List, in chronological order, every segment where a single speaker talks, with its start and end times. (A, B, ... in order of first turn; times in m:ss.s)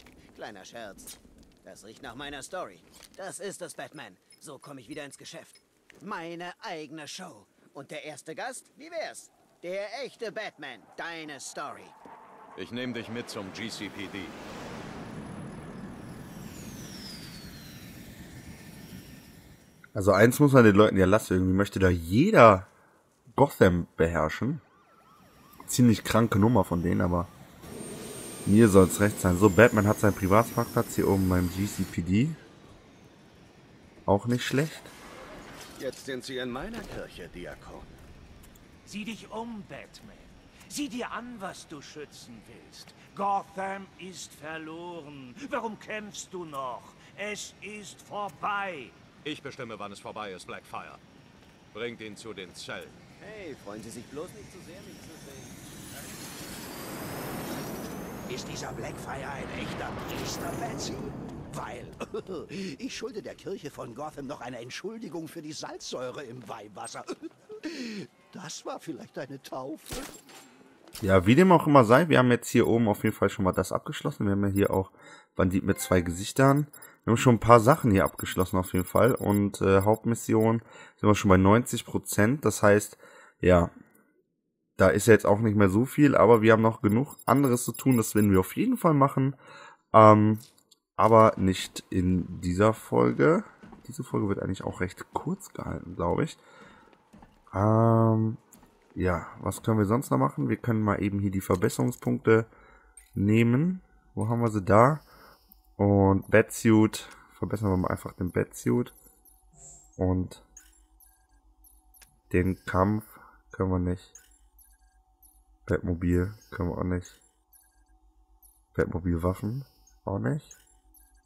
0:00.3-0:12.0 A
0:12.6-0:14.4 B
0:20.0-0:22.7 C
0:23.3-0:24.6 C
0:25.7-0:27.3 C
0:28.5-0:32.4 C
0:34.1-0:34.9 C
0:35.8-0:37.9 B
0:38.8-0:49.0 D
0:49.2-0:51.0 B
0:51.7-0:53.0 B
0:53.2-0:55.7 A
0:58.3-1:10.1 E
1:11.0-1:23.7 C
1:24.8-1:29.4 C
1:29.9-1:36.4 C
1:37.5-1:38.4 C
1:39.0-1:42.5 C
1:43.2-1:45.1 C
1:45.8-1:48.9 C
1:50.0-1:50.4 C
1:52.3-1:54.2 C
1:55.7-1:57.2 C
1:58.7-2:00.6 C